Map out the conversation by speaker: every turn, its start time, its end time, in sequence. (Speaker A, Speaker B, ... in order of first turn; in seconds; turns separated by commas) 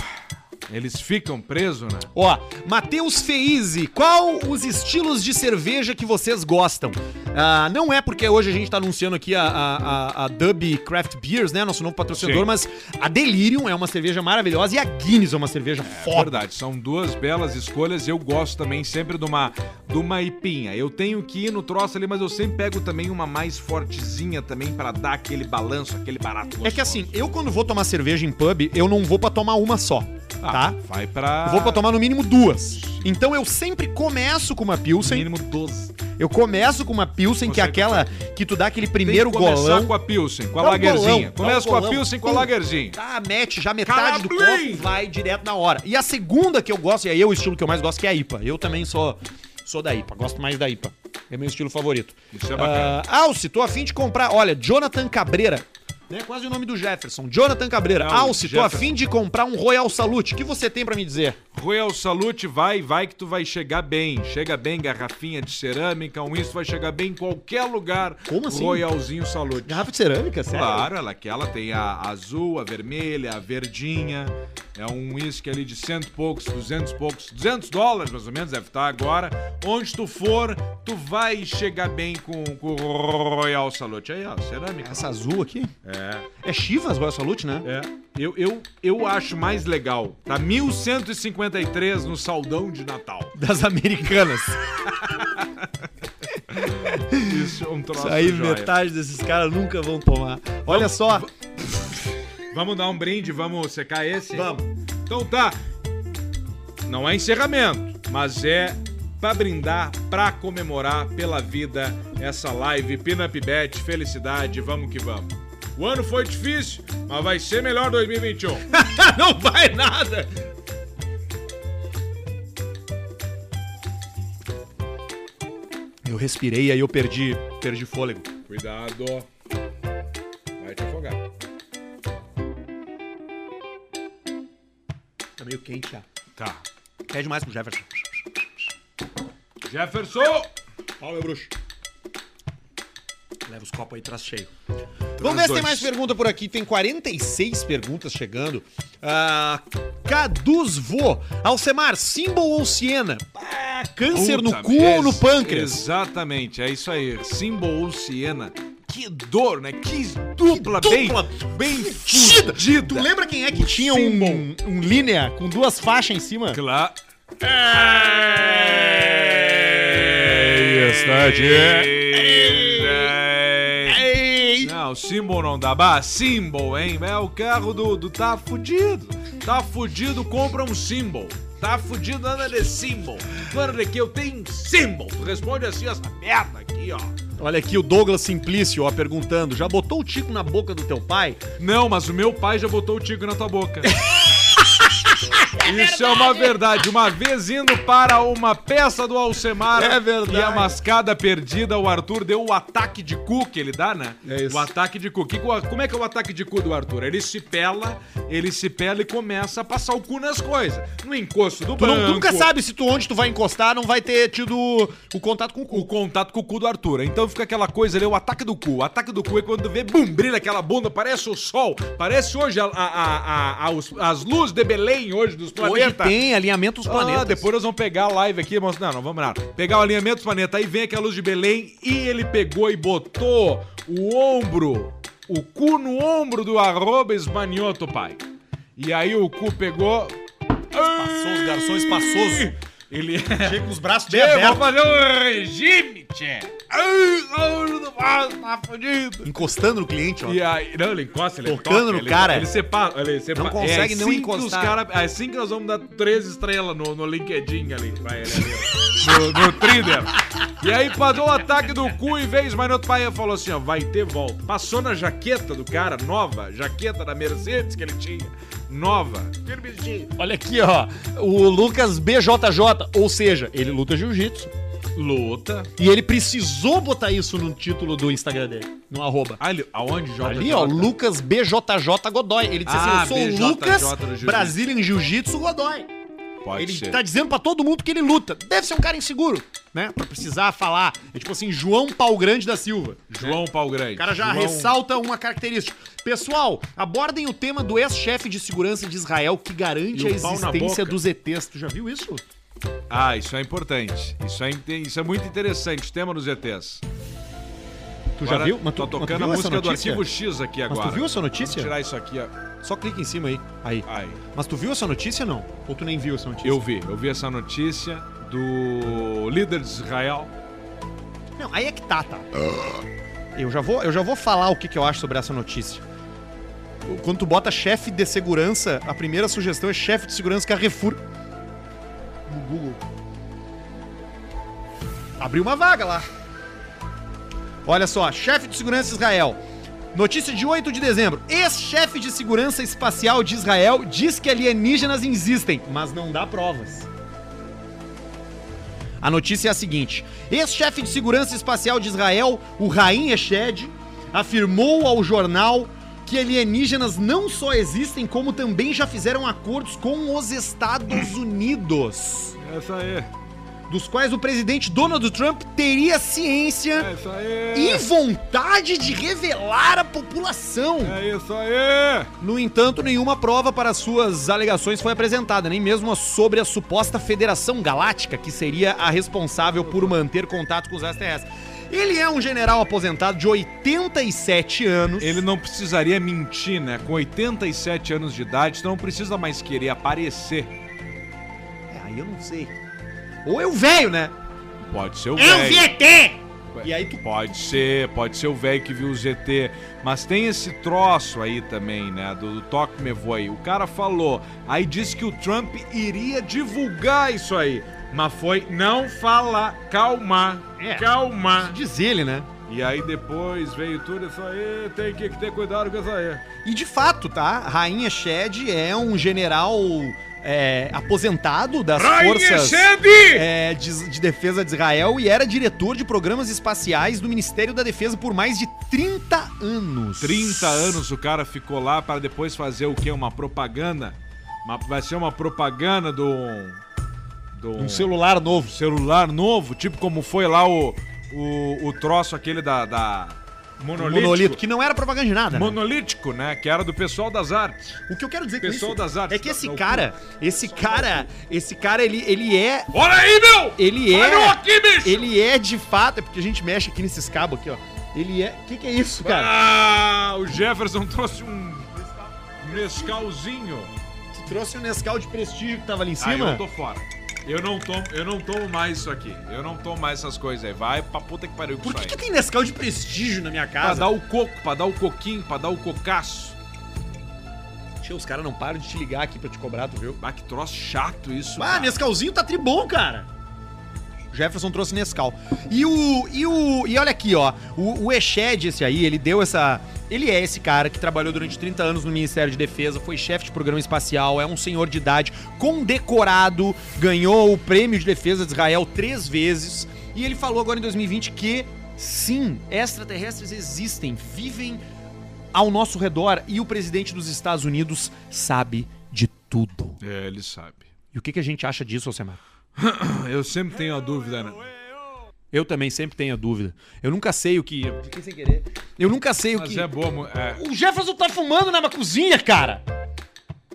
Speaker A: 0.7-2.1, Speaker B: 2.1-16.4, Speaker A: 12.1-12.5, Speaker A: 15.8-27.1, Speaker B: 26.6-30.8, Speaker A: 30.4-31.9, Speaker B: 31.4-35.3, Speaker A: 32.8-33.0, Speaker A: 35.0-36.0, Speaker B: 36.2-40.0, Speaker A: 37.4-38.2, Speaker A: 39.0-43.0, Speaker B: 40.6-61.4, Speaker A: 43.8-44.9, Speaker A: 52.3-53.0, Speaker A: 58.0-59.0, Speaker A: 61.5-69.8, Speaker B: 68.3-68.9, Speaker B: 69.6-70.9, Speaker A: 70.5-85.1, Speaker B: 84.8-85.7, Speaker A: 85.8-86.3, Speaker B: 86.4-87.7, Speaker A: 87.6-93.3, Speaker B: 93.3-94.6, Speaker A: 95.0-95.5, Speaker A: 96.5-98.7, Speaker B: 96.7-101.3, Speaker A: 100.7-101.3, Speaker A: 102.5-105.6, Speaker B: 104.3-104.6, Speaker A: 106.8-118.7, Speaker B: 118.7-120.3, Speaker B: 126.0-128.3, Speaker A: 128.5-129.3, Speaker A: 130.6-131.2, Speaker B: 135.4-136.0, Speaker A: 136.3-136.6, Speaker B: 137.1-138.5, Speaker A: 139.6-140.5, Speaker B: 141.0-141.5, Speaker B: 143.4-144.5, Speaker A: 145.2-145.9, Speaker B: 145.2-155.8, Speaker A: 154.1-164.4, Speaker B: 160.4-166.6, Speaker A: 166.5-166.9, Speaker B: 167.4-173.1, Speaker A: 167.7-174.0, Speaker B: 173.9-174.7, Speaker A: 174.6-187.1, Speaker B: 187.4-191.4, Speaker A: 191.6-194.0, Speaker B: 193.8-196.6, Speaker A: 195.6-212.5, Speaker B: 199.7-200.8, Speaker B: 204.2-204.7, Speaker B: 211.8-215.9, Speaker A: 215.7-226.2, Speaker B: 225.6-227.4, Speaker A: 226.8-238.2, Speaker A: 238.8-240.2, Speaker A: 240.7-249.3, Speaker B: 240.9-242.5, Speaker B: 243.4-244.7, Speaker B: 249.2-250.4, Speaker A: 250.2-270.1, Speaker B: 251.4-252.5, Speaker B: 253.3-254.8, Speaker B: 270.1-274.5, Speaker A: 274.9-275.7, Speaker B: 275.8-279.4, Speaker A: 279.4-280.9, Speaker B: 280.2-285.9, Speaker A: 282.6-284.6, Speaker A: 286.4-287.0, Speaker B: 286.5-293.4, Speaker A: 293.1-294.7, Speaker B: 293.9-302.2, Speaker A: 299.9-301.0, Speaker A: 302.9-306.8, Speaker B: 308.2-310.1, Speaker A: 308.2-312.3, Speaker B: 310.7-311.7, Speaker B: 312.6-316.6, Speaker A: 313.9-314.2, Speaker A: 316.4-320.3, Speaker B: 321.4-322.8, Speaker B: 323.3-325.8, Speaker B: 326.8-331.0, Speaker B: 332.3-332.8, Speaker B: 335.2-336.1, Speaker B: 337.6-339.4, Speaker B: 339.9-346.9, Speaker B: 349.0-362.4, Speaker A: 362.4-363.1, Speaker B: 363.7-366.9, Speaker A: 366.7-367.8, Speaker B: 367.5-371.0, Speaker A: 370.8-372.1, Speaker B: 372.2-385.2, Speaker A: 379.6-379.9, Speaker A: 385.0-390.5, Speaker B: 391.7-392.5, Speaker B: 393.2-394.1, Speaker A: 394.6-395.7, Speaker B: 395.1-397.0, Speaker A: 396.5-411.6, Speaker B: 410.6-412.3, Speaker A: 412.5-416.2, Speaker B: 416.4-430.8, Speaker A: 421.7-423.3, Speaker A: 430.0-436.6, Speaker A: 437.3-437.9, Speaker B: 437.6-438.5, Speaker A: 438.4-444.4, Speaker B: 443.7-445.6, Speaker A: 445.3-447.8, Speaker B: 447.9-452.7, Speaker A: 448.4-451.1, Speaker A: 452.7-455.1, Speaker B: 453.6-459.3, Speaker A: 459.0-461.8, Speaker A: 462.4-463.7, Speaker B: 464.1-466.4, Speaker A: 466.0-472.0, Speaker B: 471.6-473.9, Speaker A: 473.6-476.4, Speaker B: 477.8-480.0, Speaker A: 480.0-481.8, Speaker B: 481.4-483.1, Speaker B: 484.1-504.6, Speaker B: 505.3-509.8, Speaker A: 509.8-510.7, Speaker B: 510.9-512.2, Speaker A: 512.6-514.4, Speaker B: 515.3-519.7, Speaker A: 519.3-520.4, Speaker B: 520.3-522.6